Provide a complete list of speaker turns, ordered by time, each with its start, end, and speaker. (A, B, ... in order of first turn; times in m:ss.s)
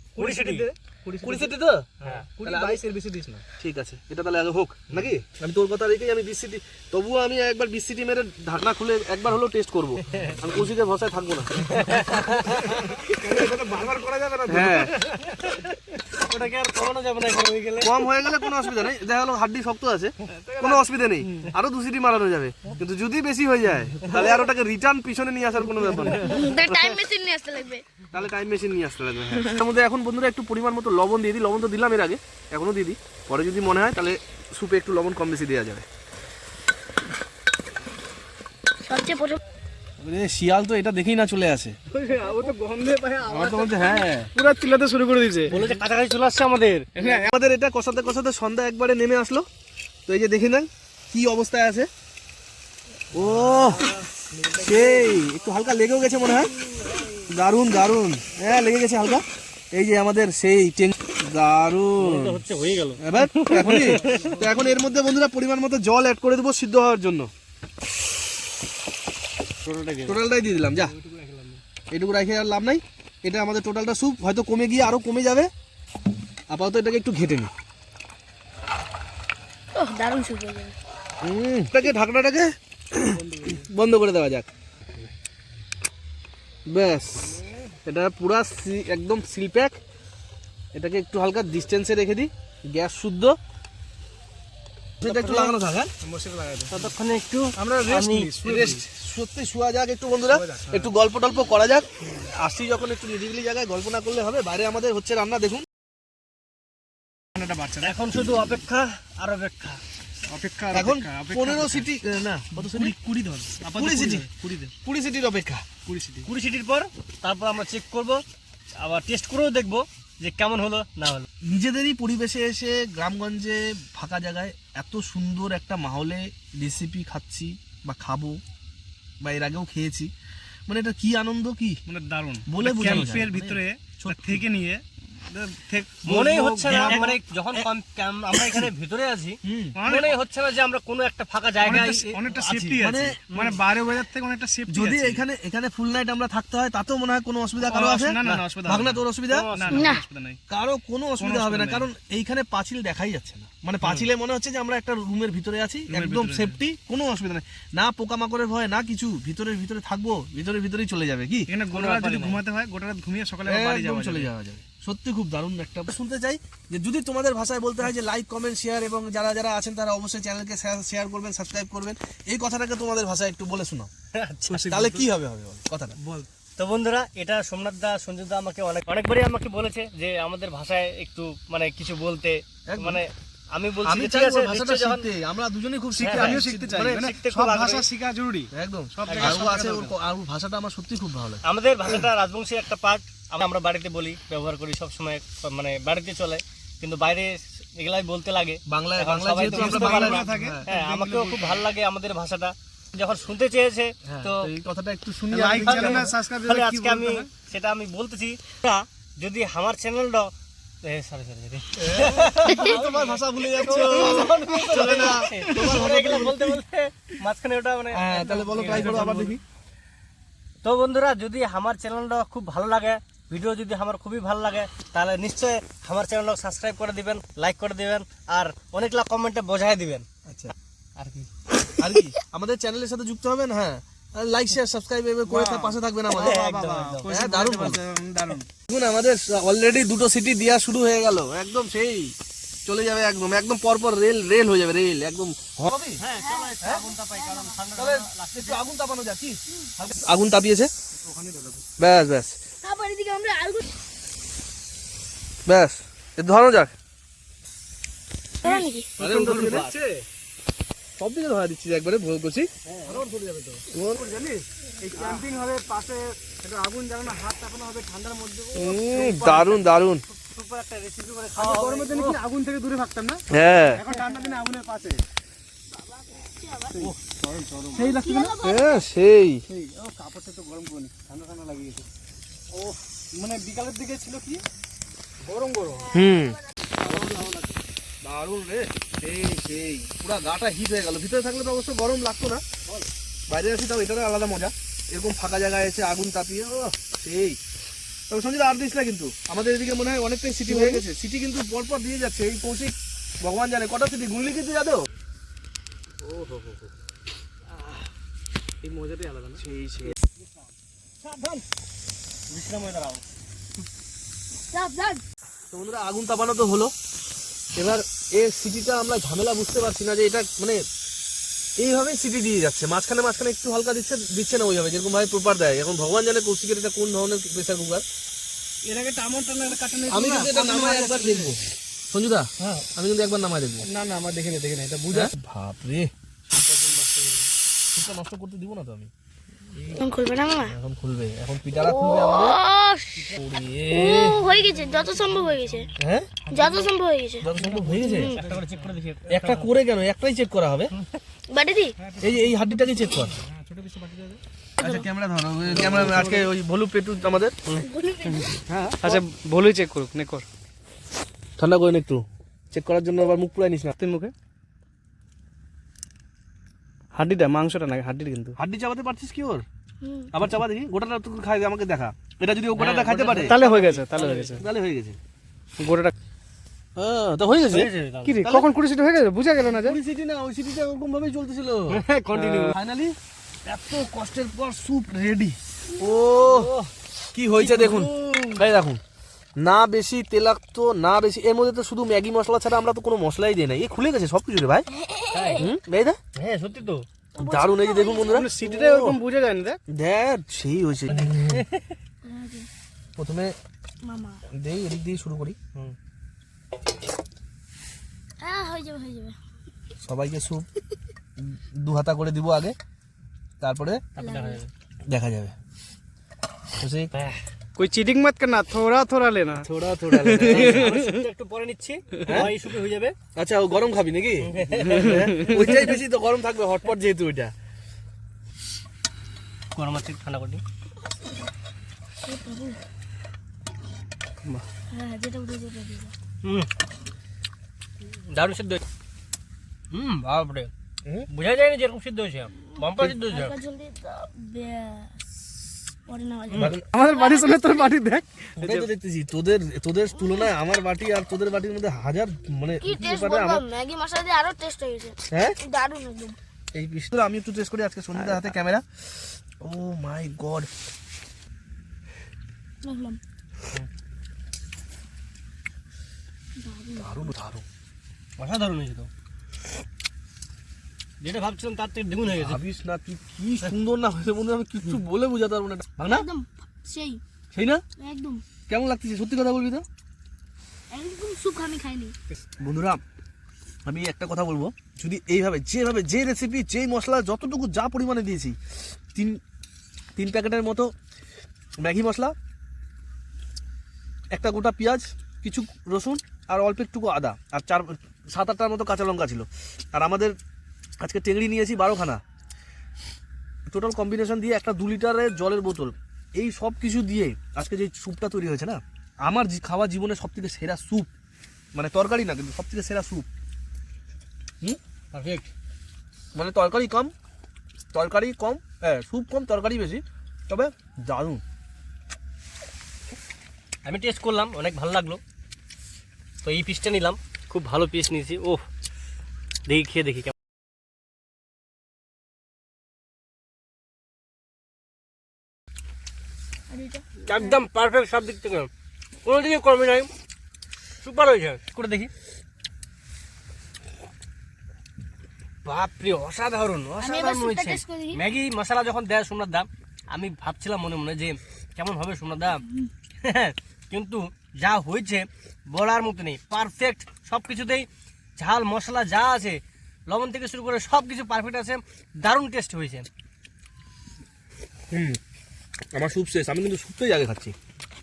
0:00.2-0:03.4 A
0:00.2-0:00.7 B
0:01.1-0:01.9 C
0:02.0-0:02.3 B
0:02.4-0:11.8 C
0:10.1-0:10.4 B
0:11.7-0:12.9 B
0:12.5-0:15.0 A
0:14.5-0:14.9 C
0:14.7-0:18.0 B
0:17.8-0:27.0 C
0:20.2-0:21.5 A
0:26.0-0:26.4 A
0:26.3-0:27.8 D
0:28.1-0:35.9 C
0:38.8-0:39.4 D
0:40.0-0:41.8 C
0:41.9-0:45.8 A
0:43.3-0:44.3 C
0:45.5-0:46.9 B
0:47.0-0:47.3 A
0:47.0-0:49.5 C
0:50.1-0:51.9 C
0:53.1-0:53.9 C
0:53.2-0:55.2 B
0:54.6-0:56.5 C
0:57.3-1:02.4 C
1:02.0-1:04.4 B
1:03.0-1:07.3 C
1:03.6-1:04.6 A
1:09.6-1:10.2 B
1:10.0-1:10.9 C
1:10.8-1:11.6 B
1:11.9-1:15.5 C
1:16.5-1:17.5 C
1:19.8-1:20.8 D
1:21.2-1:24.5 C
1:23.0-1:23.7 A
1:26.7-1:29.8 C
1:27.3-1:27.6 A
1:30.7-1:33.4 C
1:35.0-1:35.9 C
1:35.0-1:37.0 A
1:36.7-1:38.3 B
1:37.6-1:38.8 A
1:38.4-1:45.7 C
1:40.3-1:40.9 A
1:47.4-1:48.0 A
1:47.8-1:49.8 B
1:50.3-1:51.9 A
1:50.7-1:53.0 C
1:52.5-1:54.7 A
1:53.7-1:54.3 C
1:54.8-1:55.7 C
1:55.8-1:56.3 A
1:56.3-1:58.2 B
1:58.8-2:01.3 B
2:01.4-2:08.4 C
2:09.2-2:10.1 C
2:10.7-2:11.8 C
2:11.9-2:17.2 A
2:12.5-2:14.4 C
2:16.0-2:22.4 B
2:16.7-2:17.7 C
2:18.3-2:18.7 C
2:19.4-2:19.8 C
2:19.8-2:20.2 A
2:21.6-2:25.2 A
2:21.7-2:23.2 C
2:23.3-2:23.6 B
2:24.7-2:29.6 C
2:27.6-2:30.4 A
2:29.3-2:30.0 B
2:29.7-2:30.0 D
2:30.5-2:42.4 C
2:31.2-2:31.9 A
2:33.8-2:34.1 A
2:35.9-2:36.6 A
2:41.5-2:44.3 A
2:43.4-2:53.9 C
2:54.1-2:54.8 B
2:54.5-2:55.1 A
2:54.7-2:56.0 C
2:56.0-2:56.3 A
2:56.6-3:05.1 B
3:02.7-3:03.0 C
3:03.8-3:07.1 C
3:06.0-3:09.9 A
3:06.0-3:07.9 B
3:08.5-3:11.4 C
3:09.1-3:09.4 B
3:11.4-3:24.5 B
3:18.7-3:20.7 C
3:19.5-3:21.6 A
3:24.0-3:26.1 C
3:25.3-3:27.3 A
3:25.3-3:30.3 B
3:30.8-3:39.3 B
3:31.8-3:36.6 C
3:34.7-3:35.3 A
3:37.9-3:39.4 C
3:38.2-3:39.3 A
3:40.6-3:50.1 B
3:50.2-3:50.5 C
3:51.0-3:51.3 B
3:51.8-3:56.5 C
3:55.3-3:58.5 A
3:56.1-3:57.1 B
3:57.0-3:57.8 C
3:58.7-4:02.2 C
4:02.7-4:06.0 C
4:06.0-4:08.7 B
4:06.2-4:07.6 D
4:07.8-4:10.7 C
4:11.0-4:11.7 A
4:11.8-4:12.4 C
4:12.6-4:13.7 D
4:15.5-4:16.7 C
4:18.4-4:18.9 D
4:18.4-4:20.0 A
4:19.0-4:19.7 C
4:19.0-4:19.8 B
4:21.0-4:22.5 C
4:22.7-4:23.6 B
4:23.7-4:24.0 C
4:23.9-4:29.7 A
4:25.0-4:25.2 B
4:28.6-4:30.0 C
4:30.1-4:32.2 B
4:31.4-4:35.0 A
4:33.3-4:33.8 C
4:33.8-4:34.1 B
4:36.0-4:36.9 D
4:36.7-4:38.4 A
4:37.7-4:38.8 D
4:38.4-4:39.4 C
4:39.5-4:41.9 A
4:42.5-4:44.4 A
4:45.2-4:46.0 A
4:45.9-4:46.3 D
4:45.9-4:46.4 C
4:46.8-4:47.6 A
4:48.0-4:52.4 C
4:53.3-4:57.4 C
4:58.1-5:04.9 C
5:00.5-5:00.8 A
5:06.2-5:06.6 B
5:08.6-5:09.4 A
5:09.4-5:10.0 C
5:12.3-5:13.0 B
5:14.5-5:15.0 D
5:15.5-5:16.7 C
5:17.6-5:20.6 C
5:21.6-5:27.8 C
5:28.6-5:31.4 A
5:29.9-5:33.7 C
5:33.6-5:35.1 A
5:34.9-5:35.9 C
5:36.3-5:37.3 A
5:37.7-5:38.9 C
5:39.8-5:40.6 D
5:40.4-5:42.4 C
5:41.6-5:43.1 D
5:43.2-5:44.2 C
5:43.7-5:45.7 D
5:44.3-5:45.3 A
5:45.8-5:46.1 C
5:46.2-5:46.7 A
5:46.3-5:48.2 D
5:47.2-5:48.1 C
5:47.3-5:48.7 A
5:48.0-5:49.5 B
5:49.1-5:50.7 C
5:51.3-5:51.7 D
5:51.8-5:54.2 A
5:52.0-5:53.2 C
5:54.6-5:57.4 C
5:55.5-5:56.3 A
5:55.5-5:56.1 B
5:57.6-5:58.4 D
5:58.1-6:00.3 A
6:01.4-6:03.7 C
6:03.8-6:04.1 A
6:06.9-6:08.4 A
6:08.4-6:09.4 C
6:09.8-6:10.1 D
6:10.1-6:13.4 C
6:12.6-6:14.4 B
6:13.1-6:14.4 A
6:14.4-6:15.0 C
6:15.6-6:15.9 A
6:16.8-6:17.7 C
6:17.5-6:18.3 B
6:18.0-6:19.8 A
6:19.5-6:26.5 C
6:21.7-6:22.6 B
6:26.2-6:26.7 B
6:27.1-6:28.8 C
6:27.3-6:28.4 B
6:29.4-6:34.7 C
6:34.7-6:35.4 D
6:35.1-6:35.5 B
6:35.4-6:36.0 C
6:36.2-6:36.9 B
6:37.2-6:39.0 C
6:37.2-6:38.3 D
6:38.0-6:39.6 A
6:39.7-6:41.4 C
6:40.9-6:41.7 B
6:42.0-6:42.5 D
6:43.0-6:43.4 C
6:43.8-6:44.2 D
6:44.3-6:45.4 C
6:48.2-6:49.2 D
6:49.8-6:50.5 C
6:51.2-6:52.6 C
6:53.4-6:53.8 C
6:54.0-6:54.4 D
6:54.0-6:54.5 B
6:54.9-6:55.4 C
6:56.6-6:56.9 C
6:56.9-6:57.2 B
6:57.6-7:01.0 A
6:59.4-7:00.8 C
7:00.1-7:03.0 B
7:02.0-7:02.3 C
7:03.2-7:07.3 C
7:04.2-7:05.6 B
7:04.8-7:05.5 A
7:09.5-7:10.4 B
7:12.0-7:12.6 D
7:14.7-7:15.9 D
7:16.2-7:16.5 B
7:18.1-7:18.6 B
7:19.7-7:20.5 B
7:21.1-7:23.4 B
7:22.6-7:27.7 D
7:26.4-7:26.6 C
7:26.7-7:28.7 A
7:28.4-7:33.4 C
7:30.0-7:30.3 D
7:32.6-7:36.2 D
7:35.1-7:35.4 C
7:36.5-7:38.6 C
7:39.4-7:40.5 C
7:42.6-7:43.0 D
7:46.4-7:47.1 D
7:46.8-7:47.4 C
7:48.2-7:48.9 B
7:51.0-7:52.4 B
7:52.1-7:56.1 C
7:55.8-7:57.0 D
7:57.3-7:57.6 C
7:57.8-7:58.2 D
7:58.5-7:59.6 C
8:00.7-8:01.9 D
8:02.4-8:02.8 C
8:03.6-8:08.4 C
8:09.0-8:09.2 C
8:10.0-8:10.7 C
8:11.6-8:12.2 C
8:14.1-8:20.2 C
8:20.8-8:22.0 C
8:23.5-8:30.9 C
8:31.6-8:33.1 C
8:34.9-8:35.3 B
8:36.2-8:36.9 C
8:37.7-8:41.2 C
8:43.6-8:45.0 B
8:46.2-8:48.4 B
8:49.5-8:50.1 B
8:56.5-8:57.4 D
8:57.1-8:58.5 B
8:59.0-8:59.9 B
9:00.8-9:01.9 B
9:05.4-9:12.4 B
9:06.8-9:08.0 D
9:13.0-9:22.9 B
9:24.7-9:25.0 C
9:25.7-9:27.4 C